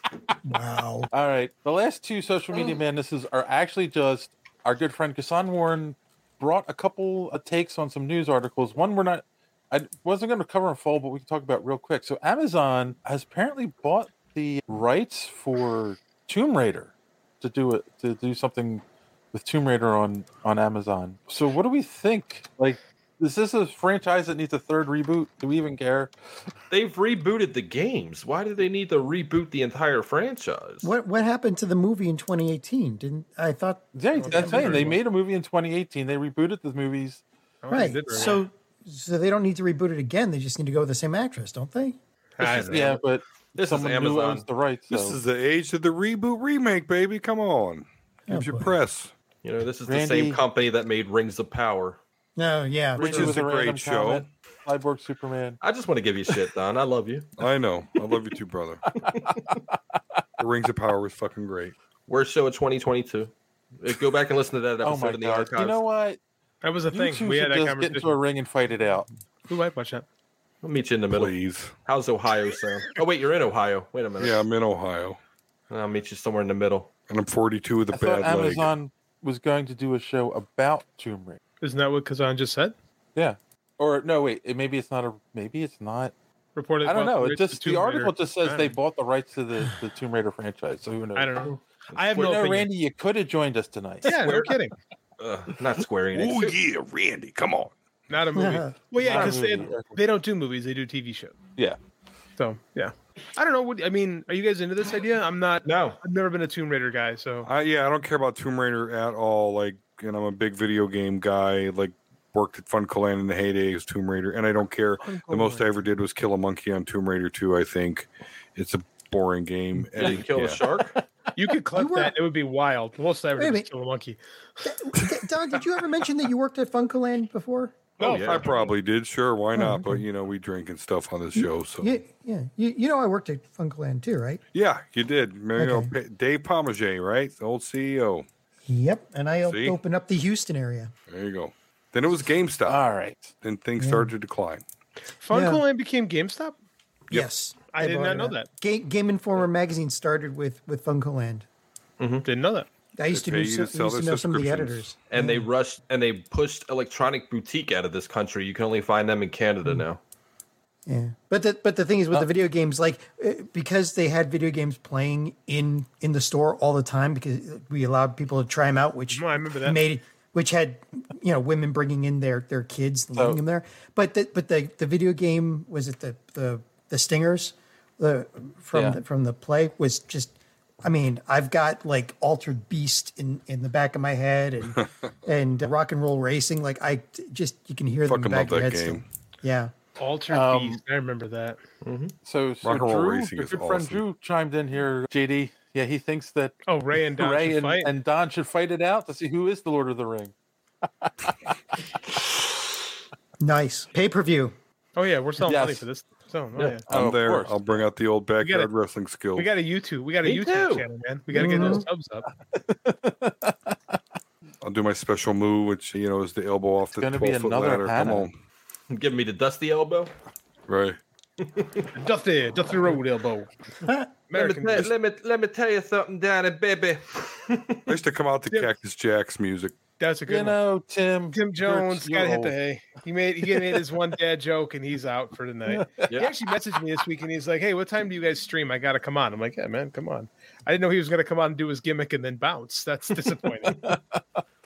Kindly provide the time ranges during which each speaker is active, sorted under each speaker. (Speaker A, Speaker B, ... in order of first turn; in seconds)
Speaker A: 0.4-1.1, 30.8-35.0, 37.7-42.0, 48.3-48.7, 52.4-53.3, 98.3-98.8, 121.7-122.1, 123.4-123.7, 124.6-127.9, 129.5-130.0, 131.3-134.4, 135.6-135.9, 138.7-140.9, 143.8-144.1, 145.3-145.6, 147.1-151.4, 152.9-155.5, 160.8-189.7, 203.4-204.6, 211.3-211.8, 223.8-224.1
Speaker B: 1.1-18.8, 19.3-26.1, 33.9-37.2, 42.6-45.2, 49.9-50.4, 53.0-55.6, 59.3-59.6, 64.8-66.2, 66.9-69.1, 77.9-81.4, 83.2-86.1, 86.8-91.5, 92.1-94.1, 99.0-100.0, 142.7-143.3, 173.1-173.4, 178.7-179.0, 190.3-190.8, 192.2-196.6, 197.2-201.5, 205.4-205.8, 206.6-207.8, 212.5-214.0, 217.0-218.3, 230.3-232.5, 233.4-233.8, 235.7-236.1, 243.7-244.4
Speaker C: 26.7-30.9, 42.4-43.0, 43.5-44.5, 49.4-52.0, 55.6-57.3, 59.1-59.4, 62.1-65.8, 70.6-71.3, 71.8-74.4, 75.7-76.9, 91.9-92.4, 94.0-94.5, 95.2-96.6, 105.6-106.0, 120.0-121.0, 128.0-128.4, 152.0-152.3, 155.1-160.0, 191.8-192.1, 210.2-210.8, 218.9-220.1, 221.4-221.9, 224.3-227.9
Speaker D: 34.1-35.0, 37.6-38.4, 42.4-42.9, 66.6-68.2, 69.5-70.0, 81.6-82.7, 86.5-88.8, 91.1-92.7, 94.0-94.7, 98.1-101.4, 102.4-107.5, 115.0-115.7, 121.3-124.2, 128.0-128.7, 145.2-146.6, 147.7-148.5, 152.2-152.7, 169.1-169.8, 190.0-191.6, 196.7-197.9, 204.9-206.8, 208.4-208.7, 209.3-212.2, 221.9-223.5, 224.3-224.9, 230.0-230.6, 231.3-243.9
Speaker E: 44.9-49.1, 53.0-54.2, 57.4-58.8, 60.4-61.7, 71.1-71.7, 74.2-75.2, 77.1-78.7, 96.1-97.7, 107.4-120.6, 128.2-132.0, 134.5-138.3, 139.4-139.8, 141.1-142.8, 143.4-144.6, 153.1-154.9, 188.0-189.1, 192.6-194.0, 206.9-209.5, 214.6-218.3, 220.7-221.0, 227.9-229.8